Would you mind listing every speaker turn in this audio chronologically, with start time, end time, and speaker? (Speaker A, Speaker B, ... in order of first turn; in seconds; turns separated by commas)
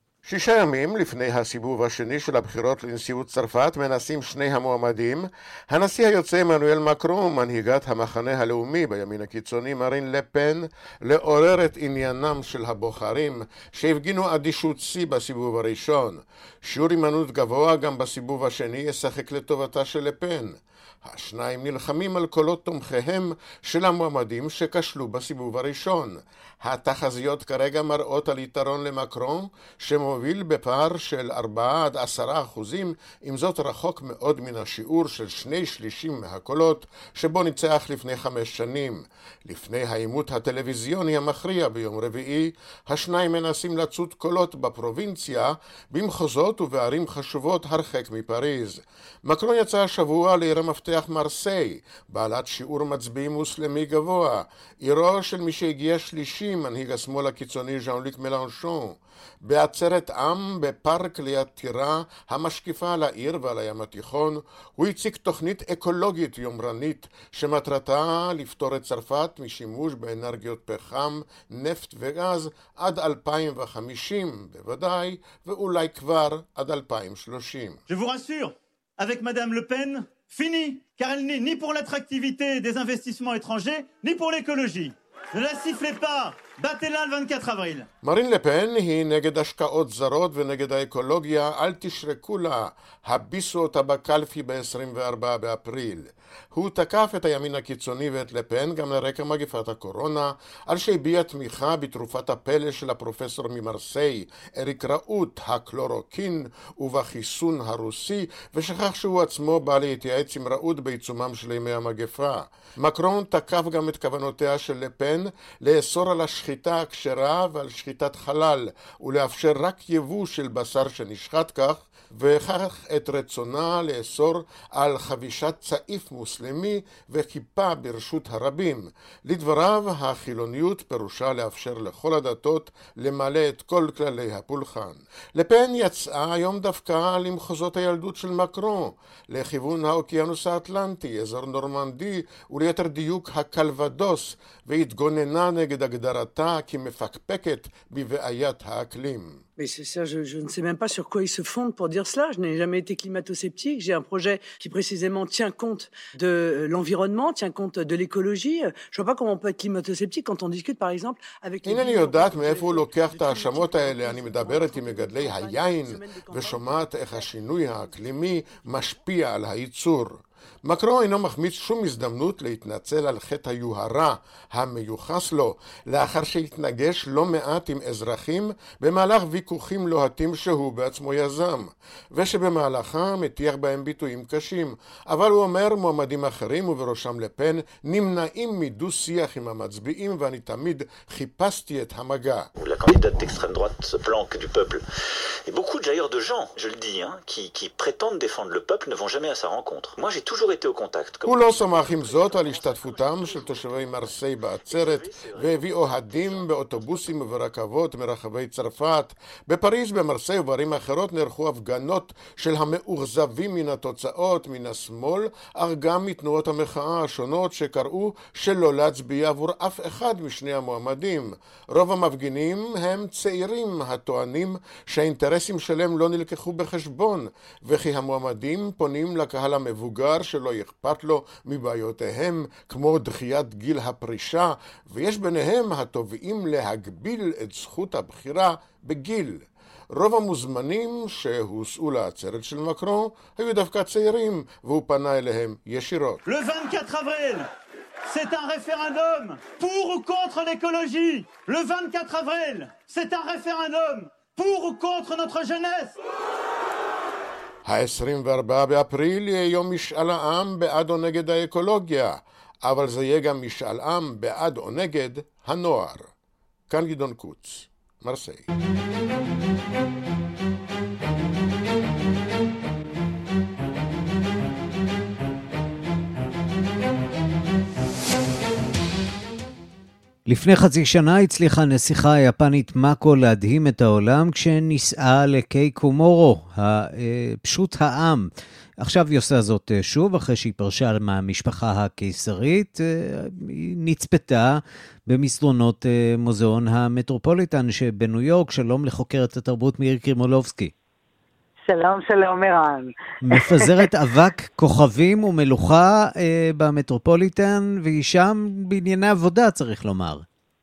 Speaker A: 0.2-77.8, Speaker B: 77.9-87.9, Speaker A: 88.0-149.4, Speaker C: 149.6-166.7, Speaker A: 161.6-192.5, Speaker D: 192.6-194.8, Speaker D: 195.5-207.3, Speaker A: 201.2-246.2, Speaker B: 246.3-247.5, Speaker B: 248.1-255.9, Speaker A: 257.6-266.1, Speaker A: 266.7-268.4, Speaker E: 280.3-288.3, Speaker E: 288.8-300.7, Speaker F: 301.7-303.9, Speaker E: 303.2-310.2